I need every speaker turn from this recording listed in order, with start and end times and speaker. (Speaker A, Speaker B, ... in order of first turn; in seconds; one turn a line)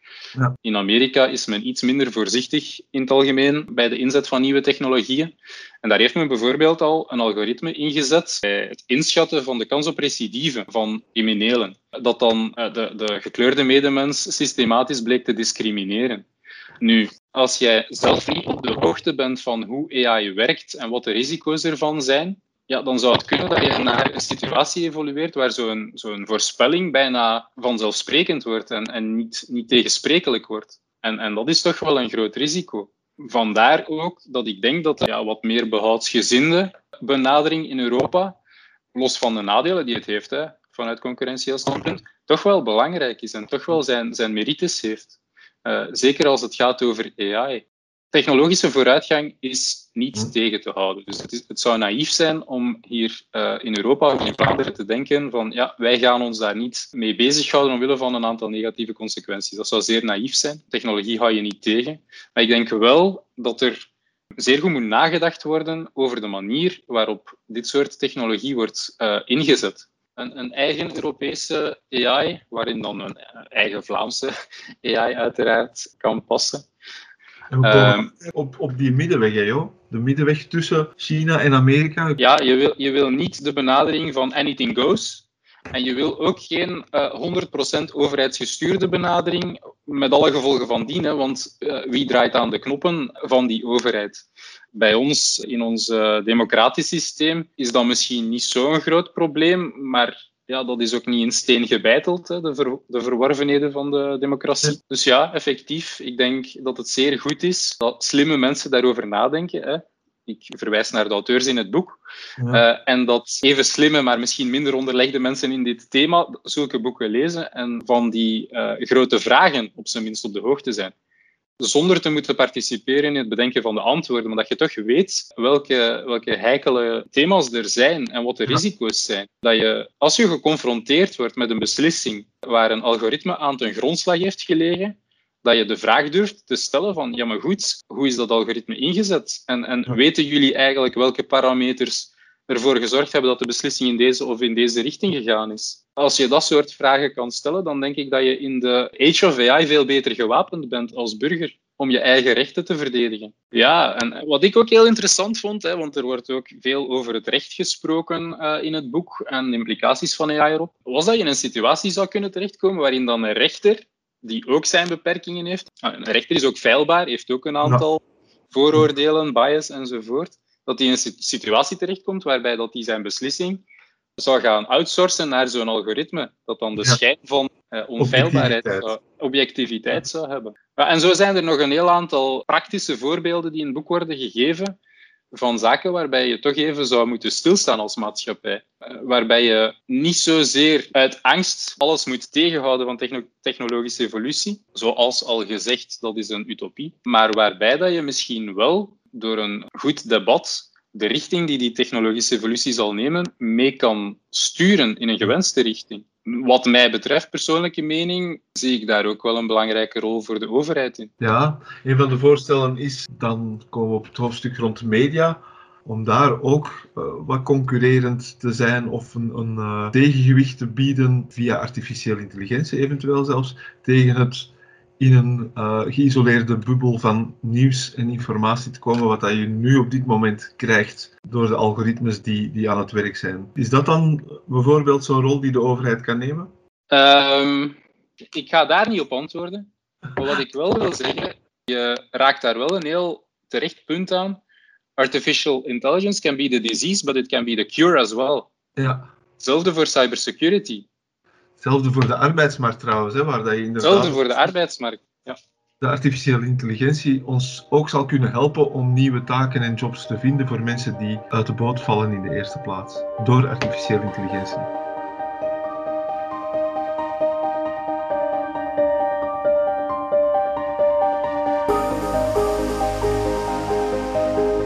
Speaker A: 0.6-16.2
Speaker A: 16.8-38.4
Speaker A: 38.9-74.3
Speaker A: 74.8-76.7
Speaker B: 77.5-82.2
Speaker A: 77.6-78.1
Speaker A: 82.2-112.0
Speaker B: 112.4-112.6
Speaker A: 112.5-120.9
Speaker A: 121.6-173.6
Speaker A: 174.2-184.8
Speaker B: 178.0-178.9
Speaker A: 185.3-211.1
Speaker B: 211.2-236.5
Speaker A: 236.9-237.8
Speaker A: 238.3-244.4
Speaker A: 245.0-248.5
Speaker B: 248.8-249.1
Speaker A: 249.4-250.9
Speaker B: 251.6-254.5
Speaker A: 253.8-255.4
Speaker B: 255.8-264.7